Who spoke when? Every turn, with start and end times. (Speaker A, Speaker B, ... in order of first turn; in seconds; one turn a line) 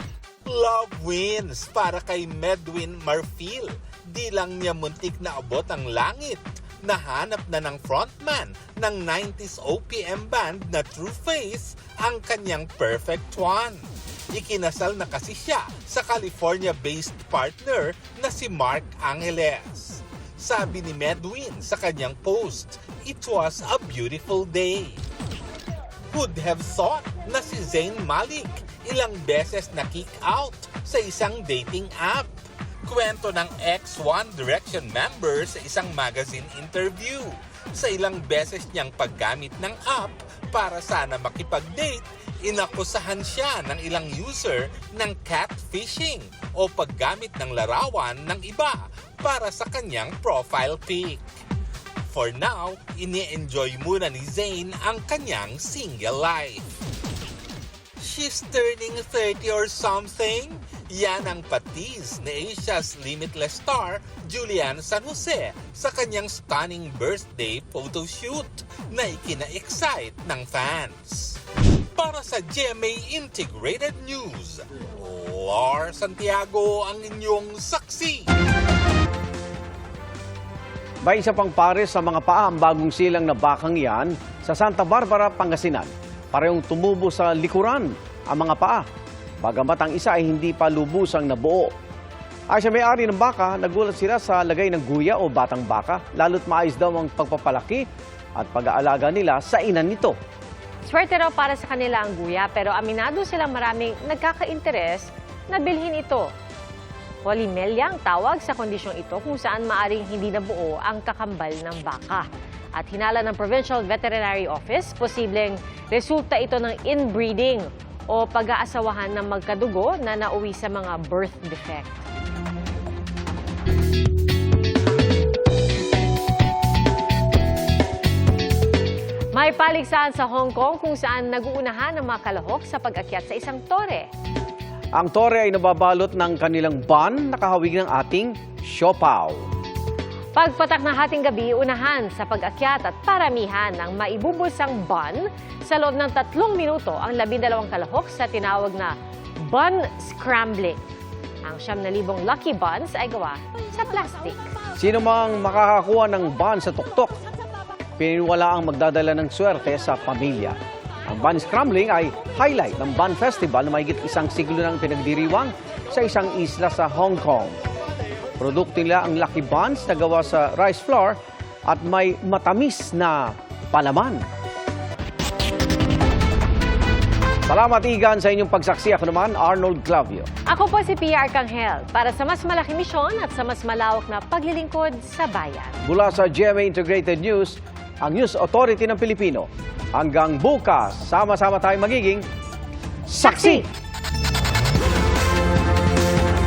Speaker A: 0.5-13.8
Speaker A: 14.3-25.0
Speaker A: 26.1-32.3
Speaker A: 32.9-51.2
Speaker A: 52.1-56.6
Speaker A: 58.0-71.4
Speaker A: 72.0-78.2
Speaker B: 81.0-88.8
Speaker B: 89.4-91.7
Speaker B: 92.5-97.8
Speaker B: 98.4-100.2
Speaker C: 100.9-106.3
Speaker C: 107.2-122.0
Speaker C: 129.3-134.1
Speaker B: 134.9-139.4
Speaker C: 140.3-150.8
Speaker C: 151.4-154.4
Speaker B: 154.8-157.2
Speaker B: 158.0-160.6
Speaker B: 161.1-167.6
Speaker B: 168.4-174.2
Speaker B: 177.5-180.3
Speaker C: 180.5-185.8
Speaker B: 185.8-192.2
Speaker B: 193.1-193.7
Speaker C: 193.2-193.7